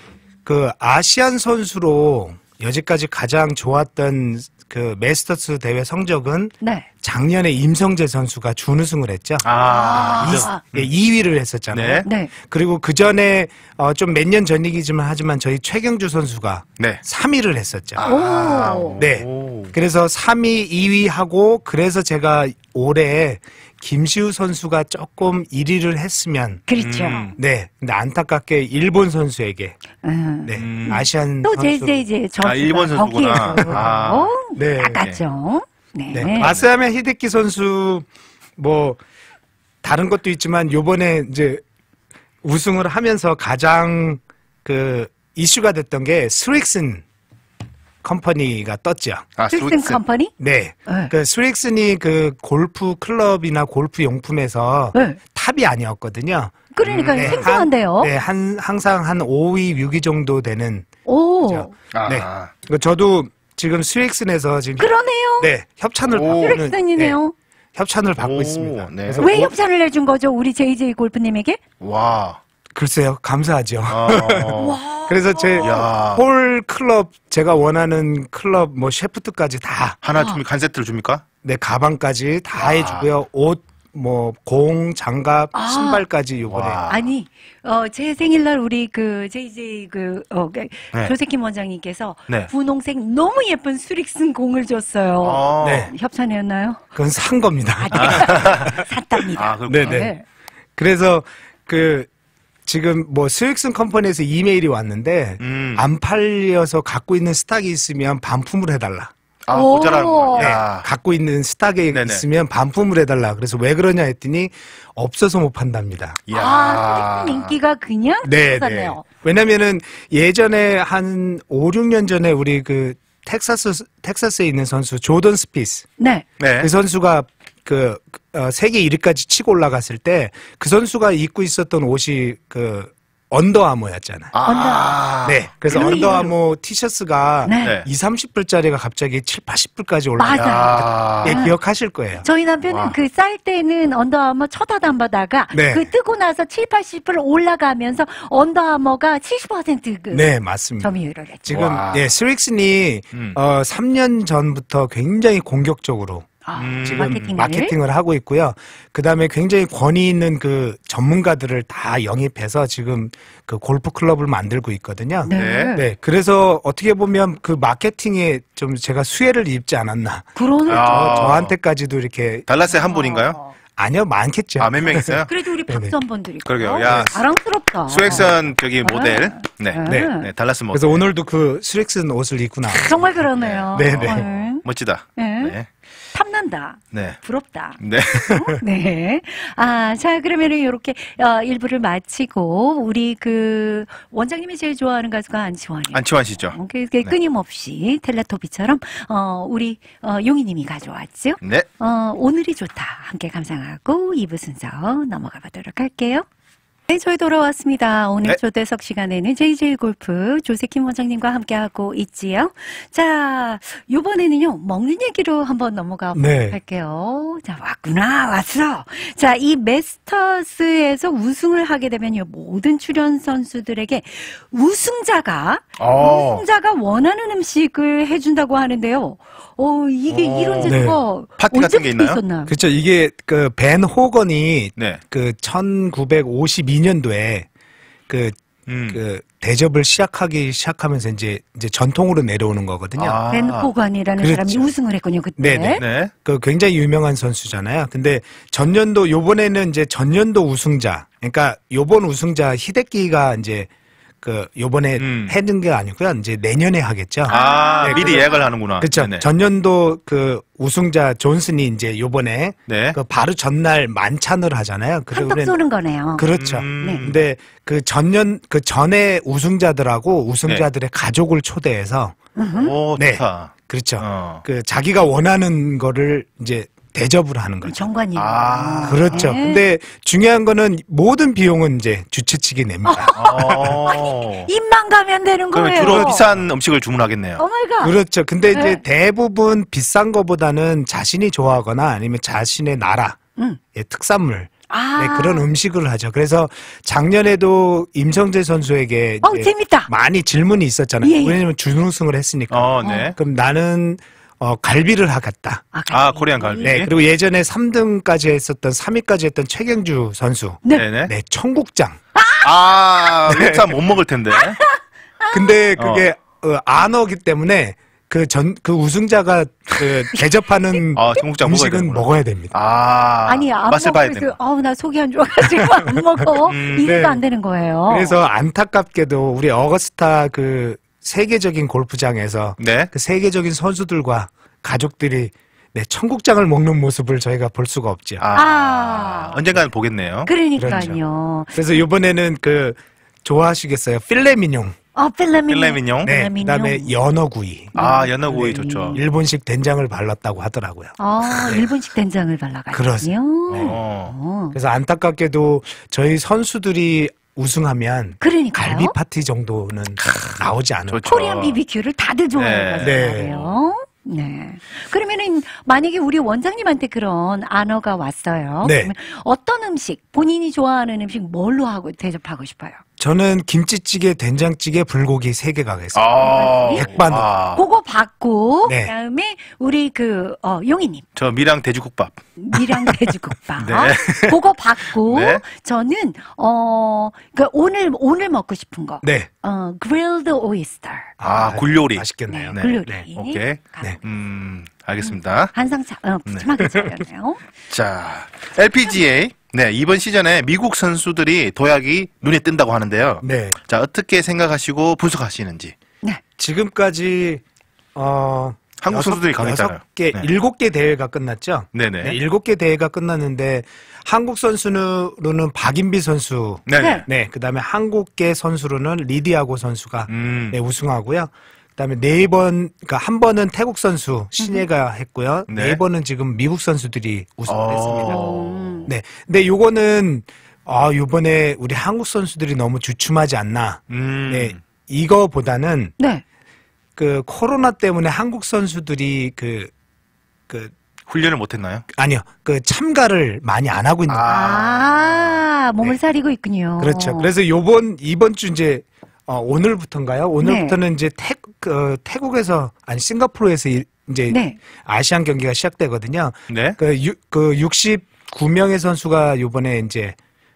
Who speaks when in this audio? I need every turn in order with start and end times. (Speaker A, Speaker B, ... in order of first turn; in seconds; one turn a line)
Speaker A: 0.4-9.5
Speaker B: 6.6-6.9
Speaker C: 9.4-10.9
Speaker B: 9.7-10.6
Speaker A: 10.1-18.1
Speaker C: 11.7-12.1
Speaker B: 12.0-12.3
Speaker C: 17.9-19.7
Speaker B: 18.0-19.0
Speaker A: 19.0-26.6
Speaker B: 26.7-27.4
Speaker C: 26.8-27.3
Speaker A: 27.3-29.8
Speaker B: 30.0-36.5
Speaker A: 30.4-32.0
Speaker C: 30.6-31.0
Speaker C: 32.4-34.3
Speaker A: 33.6-33.8
Speaker A: 34.5-35.0
Speaker A: 36.1-38.0
Speaker C: 36.2-36.6
Speaker A: 38.6-39.0
Speaker A: 39.8-41.6
Speaker A: 42.4-47.0
Speaker A: 48.0-49.3
Speaker C: 49.4-50.0
Speaker B: 49.5-50.3
Speaker A: 50.4-56.6
Speaker B: 50.9-51.1
Speaker B: 54.9-55.2
Speaker B: 56.7-58.1
Speaker C: 56.8-57.5
Speaker A: 57.1-60.9
Speaker B: 61.0-61.7
Speaker A: 61.5-64.9
Speaker C: 61.9-62.5
Speaker B: 64.8-65.5
Speaker A: 65.4-67.2
Speaker C: 66.1-66.6
Speaker B: 66.3-67.3
Speaker A: 67.7-69.5
Speaker C: 68.2-69.3
Speaker B: 69.2-71.6
Speaker C: 71.8-72.4
Speaker A: 72.7-80.0
Speaker C: 73.9-74.8
Speaker B: 74.5-75.9
Speaker C: 75.6-76.2
Speaker C: 80.0-81.2
Speaker A: 81.4-86.8
Speaker C: 82.6-83.1
Speaker B: 85.5-86.0
Speaker C: 86.5-87.1
Speaker B: 86.9-96.8
Speaker C: 95.2-95.9
Speaker A: 95.6-95.9
Speaker A: 96.9-98.8
Speaker B: 97.8-100.2
Speaker C: 97.9-100.1
Speaker A: 99.7-100.1
Speaker A: 100.8-102.1
Speaker A: 102.7-109.1
Speaker C: 105.4-105.8
Speaker C: 109.5-110.8
Speaker B: 109.5-110.6
Speaker A: 110.4-116.2
Speaker C: 111.9-112.2
Speaker C: 116.3-117.5
Speaker B: 116.3-119.0
Speaker A: 118.2-125.9
Speaker B: 126.0-126.2
Speaker C: 126.4-126.7
Speaker A: 126.6-134.3
Speaker C: 134.3-136.2
Speaker B: 134.4-135.0
Speaker A: 135.2-142.2
Speaker B: 135.7-136.3
Speaker B: 137.4-137.8
Speaker C: 137.6-137.8
Speaker B: 140.2-141.5
Speaker C: 140.3-141.4
Speaker B: 142.2-150.3
Speaker C: 142.7-142.9
Speaker A: 145.5-145.9
Speaker A: 150.1-150.9
Speaker B: 150.8-151.6
Speaker A: 151.4-156.3
Speaker C: 151.5-152.1
Speaker B: 156.4-157.7
Speaker C: 156.6-157.3
Speaker A: 156.8-172.5
Speaker B: 165.2-165.8
Speaker C: 165.3-165.7
Speaker B: 170.3-171.3
Speaker C: 170.7-171.5
Speaker C: 172.5-173.4
Speaker B: 172.7-173.6
Speaker A: 173.8-175.9
Speaker C: 174.6-175.3
Speaker B: 175.3-180.3
Speaker C: 176.4-177.2
Speaker A: 176.8-177.1
Speaker C: 177.9-181.0
Speaker A: 178.1-178.3
Speaker A: 179.8-180.2
Speaker A: 180.7-183.1
Speaker B: 182.7-184.6
Speaker C: 183.3-185.7
Speaker A: 183.7-184.3
Speaker B: 185.2-185.6
Speaker B: 186.1-206.2
Speaker C: 186.9-187.2
Speaker C: 187.8-188.3
Speaker A: 188.1-188.6
Speaker C: 195.9-197.2
Speaker C: 201.4-201.7
Speaker B: 206.9-232.5
Speaker A: 216.1-216.6
Speaker C: 225.8-226.4
Speaker C: 230.1-230.8
Speaker A: 230.7-231.0
Speaker C: 231.4-232.2
Speaker A: 232.5-237.5
Speaker C: 234.8-235.0
Speaker A: 238.1-238.4
Speaker C: 238.7-239.0
Speaker A: 238.9-243.2
Speaker C: 243.0-243.7
Speaker B: 243.3-245.8
Speaker A: 244.2-244.7
Speaker A: 245.4-253.7
Speaker C: 245.8-246.1
Speaker A: 254.2-265.6
Speaker C: 255.0-255.3
Speaker C: 257.3-259.2
Speaker B: 257.3-258.5
Speaker C: 262.7-263.0
Speaker B: 265.1-266.3
Speaker A: 266.2-272.1
Speaker C: 266.4-267.2
Speaker B: 266.8-267.1
Speaker B: 272.4-272.8
Speaker C: 272.5-274.4
Speaker A: 272.9-277.9
Speaker B: 277.6-279.6
Speaker C: 278.1-279.3
Speaker A: 278.8-283.9
Speaker B: 282.8-286.2
Speaker C: 283.1-284.5
Speaker C: 285.5-287.4
Speaker A: 285.8-286.5
Speaker B: 287.4-287.9
Speaker A: 287.8-293.2
Speaker B: 288.5-288.8
Speaker A: 293.7-305.6
Speaker B: 294.7-295.5
Speaker B: 299.2-299.9
Speaker B: 301.0-301.4
Speaker C: 302.5-303.1
Speaker B: 302.8-303.1
Speaker B: 305.7-306.9
Speaker C: 305.9-306.9
Speaker A: 306.6-312.0
Speaker C: 310.7-311.1
Speaker B: 312.2-312.4
Speaker C: 312.4-314.6
Speaker A: 313.2-313.8
Speaker B: 314.3-315.5
Speaker A: 315.3-322.5
Speaker C: 315.8-316.1
Speaker C: 320.9-324.4
Speaker B: 323.2-328.2
Speaker A: 325.8-326.2
Speaker C: 326.5-327.0
Speaker A: 326.8-327.2
Speaker A: 327.9-338.2
Speaker C: 332.6-332.9
Speaker C: 338.2-340.9
Speaker B: 338.3-339.6
Speaker B: 340.2-341.8
Speaker A: 340.6-341.0
Speaker A: 341.5-344.8
Speaker B: 344.9-346.9
Speaker C: 345.5-346.1
Speaker A: 346.0-347.7
Speaker B: 347.7-349.0
Speaker C: 347.8-349.0
Speaker A: 348.2-351.7
Speaker B: 351.0-354.6
Speaker A: 352.7-353.1
Speaker C: 353.5-354.1
Speaker A: 354.5-361.0
Speaker B: 358.2-358.9
Speaker C: 360.9-361.6
Speaker B: 361.1-372.8
Speaker C: 362.3-363.6
Speaker A: 362.8-363.3
Speaker A: 368.6-368.9
Speaker A: 373.0-377.3
Speaker C: 375.9-377.6
Speaker B: 376.1-376.9
Speaker B: 377.5-381.1
Speaker A: 378.6-378.9
Speaker C: 381.1-382.2
Speaker B: 382.4-391.1
Speaker C: 383.6-384.4
Speaker C: 385.0-385.4
Speaker A: 389.0-389.3
Speaker A: 391.2-393.1
Speaker C: 391.2-395.5
Speaker B: 392.3-394.0
Speaker B: 395.0-397.4
Speaker C: 397.7-405.7
Speaker A: 403.2-403.6
Speaker A: 406.4-407.4
Speaker A: 407.9-428.2
Speaker C: 408.8-410.2
Speaker C: 411.7-412.2
Speaker C: 416.7-417.0
Speaker B: 416.8-417.1
Speaker C: 420.1-420.6
Speaker B: 424.4-424.6
Speaker C: 425.5-425.8
Speaker C: 427.5-428.9
Speaker B: 428.0-428.9
Speaker A: 428.9-435.9
Speaker C: 433.9-434.6
Speaker A: 436.9-439.7
Speaker A: 440.5-440.7
Speaker C: 441.1-441.9
Speaker A: 441.9-444.6
Speaker C: 444.1-445.4
Speaker B: 444.3-447.3
Speaker A: 446.8-460.1
Speaker B: 450.4-450.8
Speaker B: 454.3-454.6
Speaker C: 456.5-456.8